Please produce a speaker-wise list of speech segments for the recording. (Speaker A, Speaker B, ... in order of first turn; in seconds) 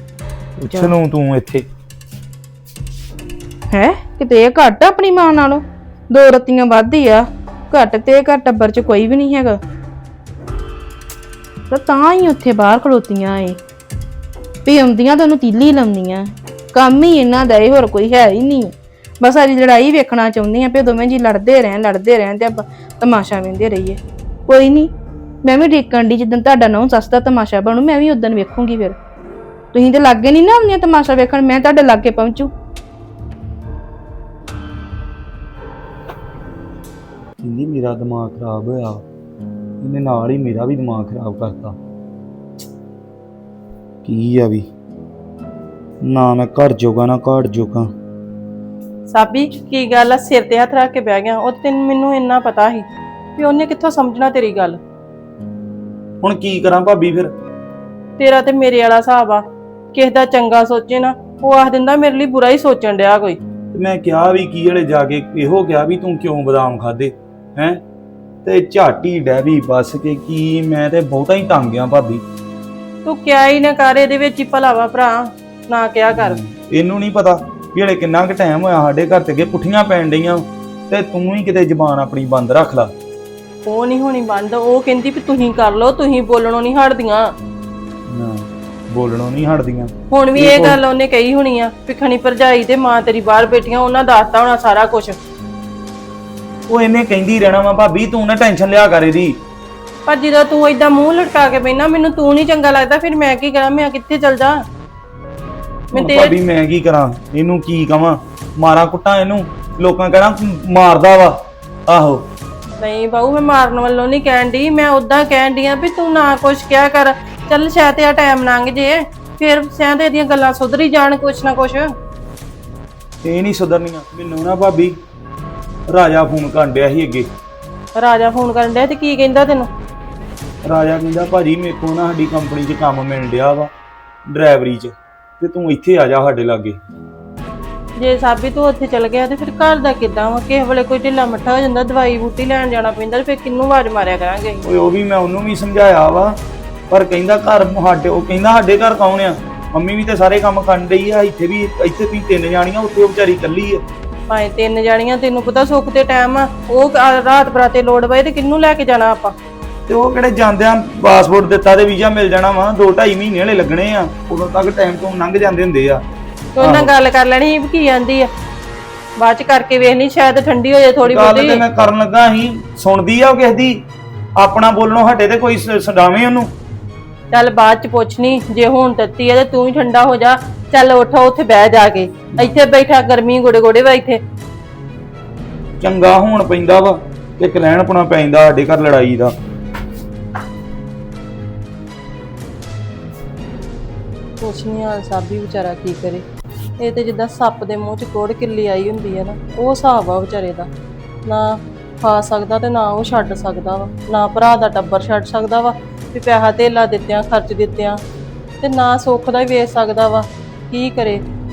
Speaker A: 0.6-1.6, 37.4-39.0, 39.8-41.7, 44.0-44.7, 46.0-47.9, 56.2-57.3, 63.7-67.8, 68.4-72.2, 76.1-82.9, 88.1-90.8, 96.7-99.3, 105.9-111.3, 111.9-112.2, 123.2-125.0, 125.9-127.3, 130.6-133.7, 134.3-136.8, 144.6-146.3, 146.9-153.8, 159.9-166.0, 166.6-166.9, 171.0-173.8, 174.4-176.5, 185.8-189.3
Speaker B: 3.7-9.6, 11.7-13.6, 14.6-24.9, 25.4-29.0, 29.7-32.5
Speaker C: 49.1-52.8, 53.4-54.8, 58.2-63.4, 73.0-76.4, 83.7-87.3, 90.1-95.2, 100.1-104.6, 105.9-106.4, 112.8-121.9, 128.0-129.7, 138.0-144.6, 154.3-159.3, 166.6-168.3, 169.2-171.6, 177.3-184.2, 194.4-196.2, 196.8-200.7, 201.2-208.0, 208.6-211.2